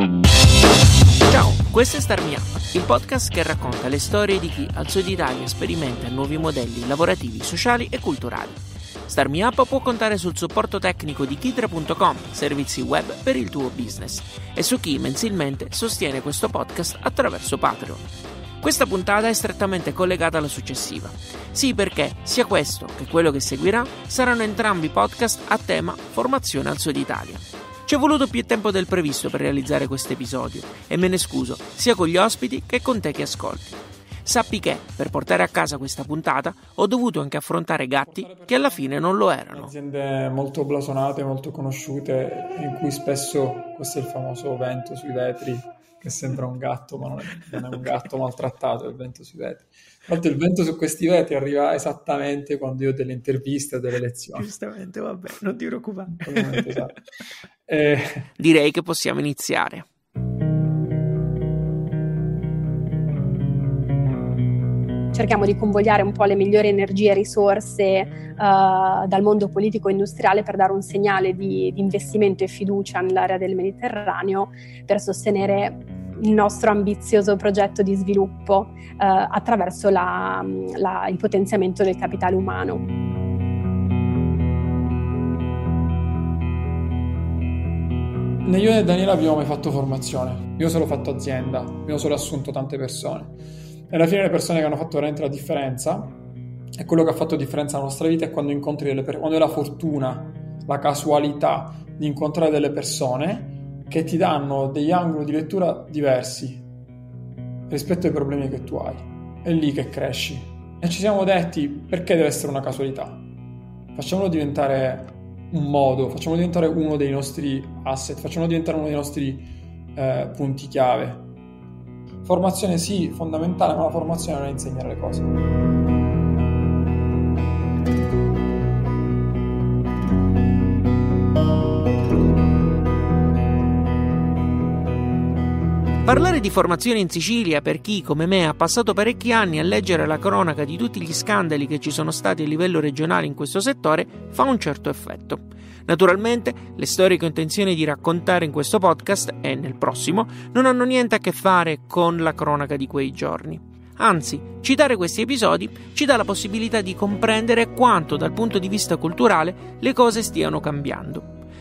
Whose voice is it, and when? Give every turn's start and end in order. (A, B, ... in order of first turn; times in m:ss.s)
0:01.3-0:18.0 A
0:18.6-0:39.7 A
0:38.0-0:38.9 B
0:39.5-0:54.5 B
0:54.4-0:56.9 A
0:56.2-0:56.9 B
0:57.7-0:58.3 B
0:58.4-0:59.9 A
1:05.1-1:22.8 C
1:28.4-1:33.4 B
1:33.9-1:36.2 B
1:36.8-1:46.7 B
1:47.7-1:53.3 B
1:53.9-2:01.3 B
2:02.2-2:05.3 B
2:16.0-2:41.3 A